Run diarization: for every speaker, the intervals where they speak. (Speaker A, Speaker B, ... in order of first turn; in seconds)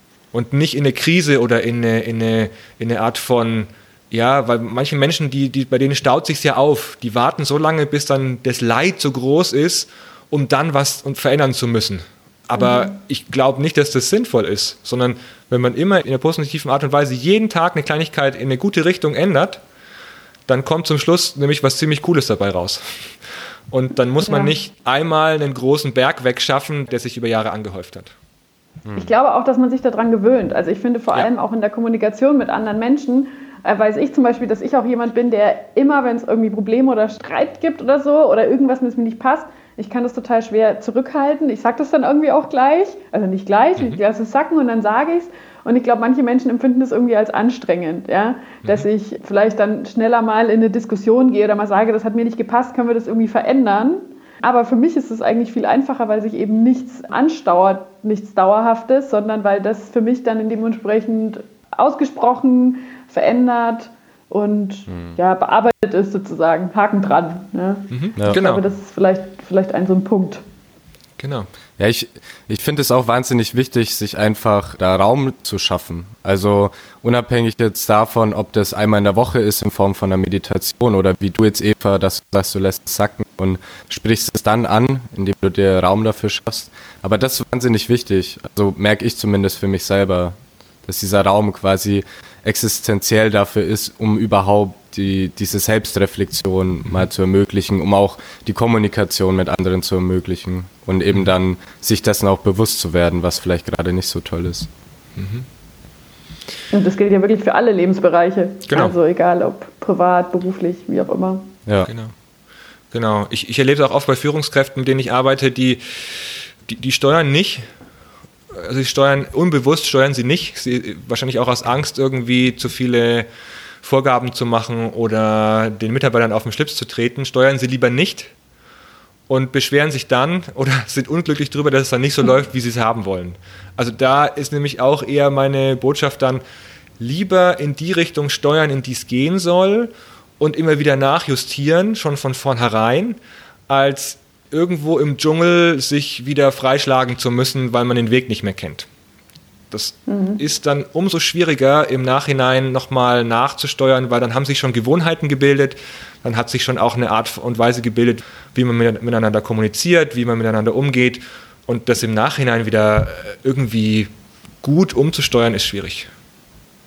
Speaker A: 0.3-19.6, 20.5-23.1, 23.7-28.1, 67.9-68.6, 71.2-71.5, 105.2-105.5, 108.7-108.9, 111.9-112.1, 112.9-117.7, 118.5-123.3, 123.8-128.3, 129.3-136.4, 137.0-143.2, 143.7-148.9, 149.7-164.1, 164.6-166.1
Speaker B: 12.6-12.9, 24.3-24.5, 28.9-70.4, 106.7-111.5, 150.1-150.4
Speaker C: 28.9-29.1, 64.9-65.2, 71.8-104.7